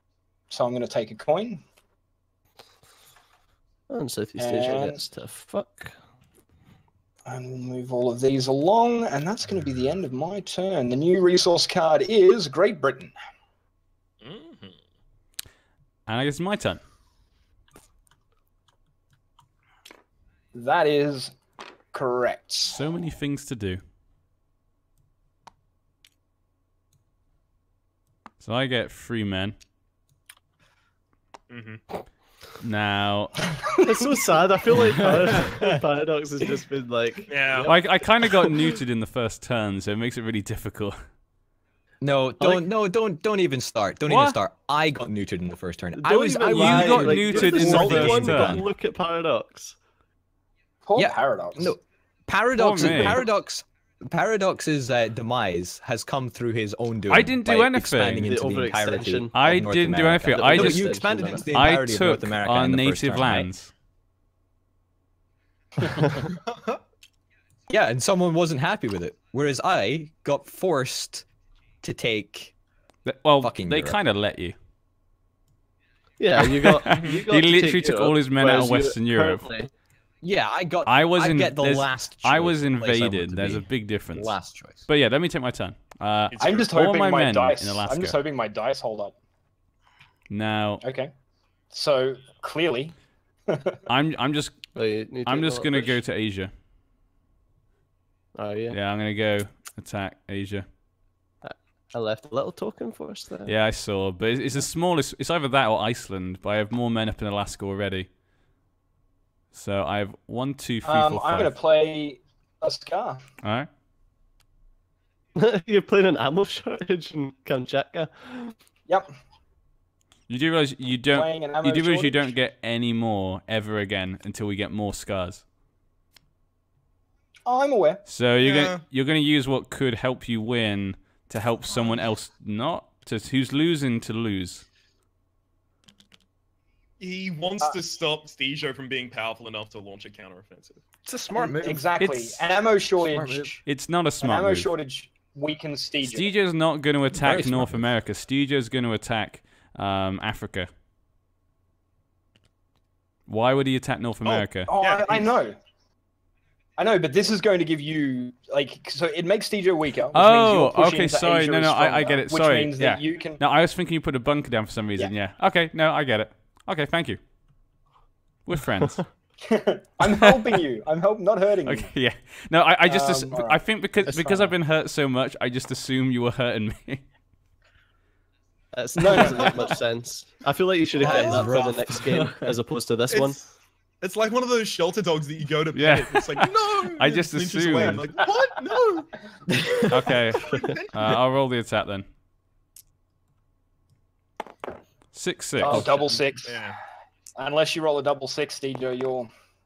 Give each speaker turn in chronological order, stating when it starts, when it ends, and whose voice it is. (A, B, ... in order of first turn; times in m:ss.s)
0:00.5-0:01.6 A
0:03.9-0:06.0 B
0:04.4-0:05.0 A
0:07.2-0:13.1 A
0:14.2-0:14.8 C
0:16.1-0:16.8 D
0:20.5-0:21.4 A
0:21.9-0:22.8 A
0:22.7-0:23.8 D
0:28.4-0:29.6 D
0:31.5-0:31.8 C
0:32.6-0:33.5 D
0:33.8-0:38.5 B
0:37.3-0:37.7 C
0:37.7-0:41.0 D
0:42.0-0:48.7 E
0:44.1-0:44.4 D
0:46.0-0:49.8 B
0:46.5-0:48.6 D
0:50.9-0:51.7 A
0:51.0-1:03.5 E
0:52.6-0:53.2 D
0:57.1-0:58.3 D
0:58.2-0:59.3 B
0:59.4-1:03.7 D
1:00.3-1:01.4 B
1:06.1-1:06.8 C
1:07.7-1:11.2 E
1:11.8-1:12.5 E
1:13.0-1:14.6 D
1:13.4-1:14.0 E
1:16.2-1:19.7 B
1:16.4-1:19.4 D
1:20.2-1:24.9 E
1:20.9-1:28.2 D
1:26.3-1:26.7 C
1:26.4-1:29.1 A
1:30.3-1:30.8 D
1:30.8-1:31.1 A
1:31.7-1:33.0 A
1:33.5-1:33.8 A
1:33.9-1:34.7 D
1:34.7-1:36.0 B
1:35.2-1:36.5 D
1:38.4-1:38.8 B
1:38.7-1:40.6 D
1:41.4-1:43.5 B
1:43.5-1:48.1 D
1:49.5-1:51.5 D
1:50.8-1:53.2 A
1:53.4-1:53.7 D
1:55.4-1:58.5 B
2:00.3-2:05.4 D
2:01.1-2:02.3 A
2:07.4-2:08.0 A
2:08.1-2:14.7 D
2:08.4-2:08.8 C
2:17.0-2:20.8 C
2:21.0-2:21.8 E
2:21.4-2:23.6 A
2:22.0-2:22.4 D
2:23.0-2:23.5 E
2:23.6-2:24.7 D
2:24.2-2:26.3 A
2:26.0-2:30.7 D
2:27.1-2:27.9 E
2:33.3-2:34.7 D
2:34.3-2:35.6 A
2:34.8-2:35.2 C
2:36.8-2:43.4 A
2:40.1-2:47.2 D
2:48.5-2:49.1 D
2:49.5-2:51.9 A
2:50.0-2:50.6 D
2:51.6-2:57.0 D
2:52.9-2:54.5 A
2:58.7-3:03.4 B
2:59.0-2:59.7 A
3:01.0-3:02.6 E
3:03.1-3:03.5 C
3:04.0-3:09.1 C
3:05.7-3:08.0 D
3:09.9-3:12.0 D
3:10.4-3:11.1 C
3:15.1-3:15.9 D
3:15.6-3:16.7 A
3:16.4-3:16.8 C
3:17.4-3:19.3 A